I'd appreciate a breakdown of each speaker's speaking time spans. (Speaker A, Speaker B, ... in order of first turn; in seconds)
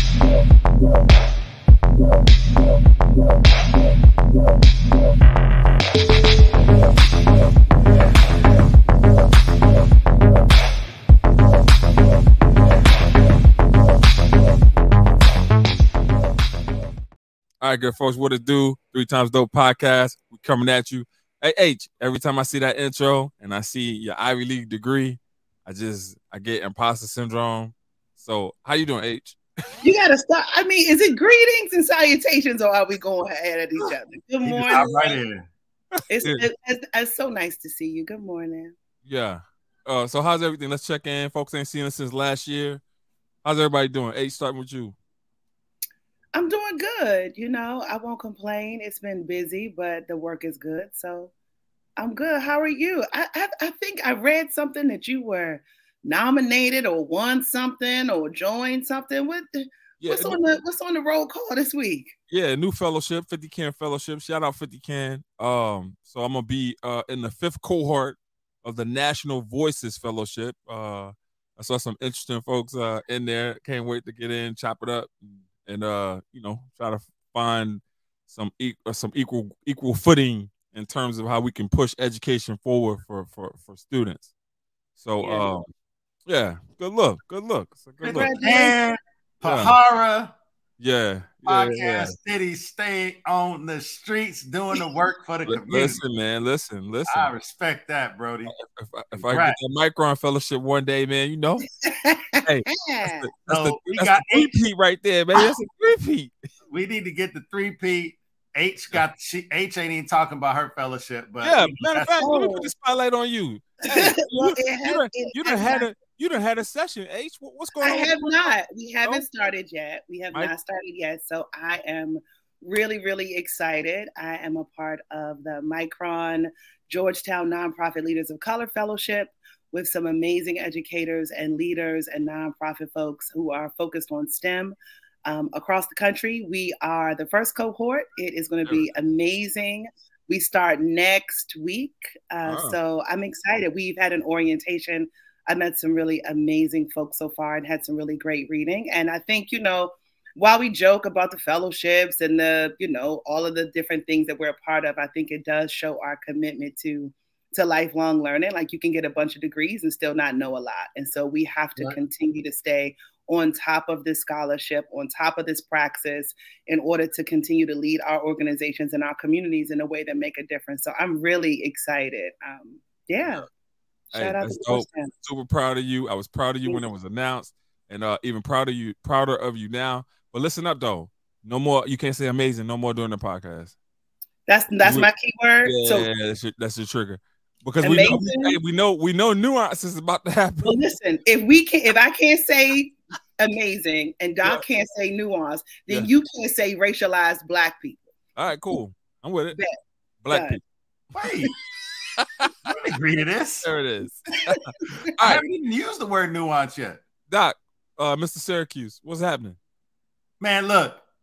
Speaker A: 17.6-29.4, 39.0-42.8, 43.4-45.0, 60.0-60.4, 62.3-84.3, 85.0-85.7, 86.3-88.3, 89.4-89.8, 90.8-92.2, 95.5-97.3, 98.5-101.7, 102.4-106.3, 111.4-118.3, 142.4-142.8, 174.1-183.8, 184.8-185.1, 185.7-190.8, 198.4-199.6, 200.2-200.6, 202.2-202.8, 203.6-205.4, 207.3-209.6
Speaker B: 29.8-35.2, 36.1-38.8, 46.4-51.3, 52.0-62.1, 85.2-85.5, 88.0-88.8, 101.8-103.3, 112.2-112.7, 113.9-115.9, 117.8-134.8, 135.3-173.5, 174.1-175.1, 184.5-186.1, 187.8-188.6, 190.6-198.1, 200.3-200.6
Speaker C: 34.5-35.5, 88.1-90.3, 91.5-96.0, 97.1-98.5, 99.2-99.6, 103.5-104.6, 106.7-112.2, 201.1-201.5, 202.7-203.7, 205.2-207.0, 210.4-211.0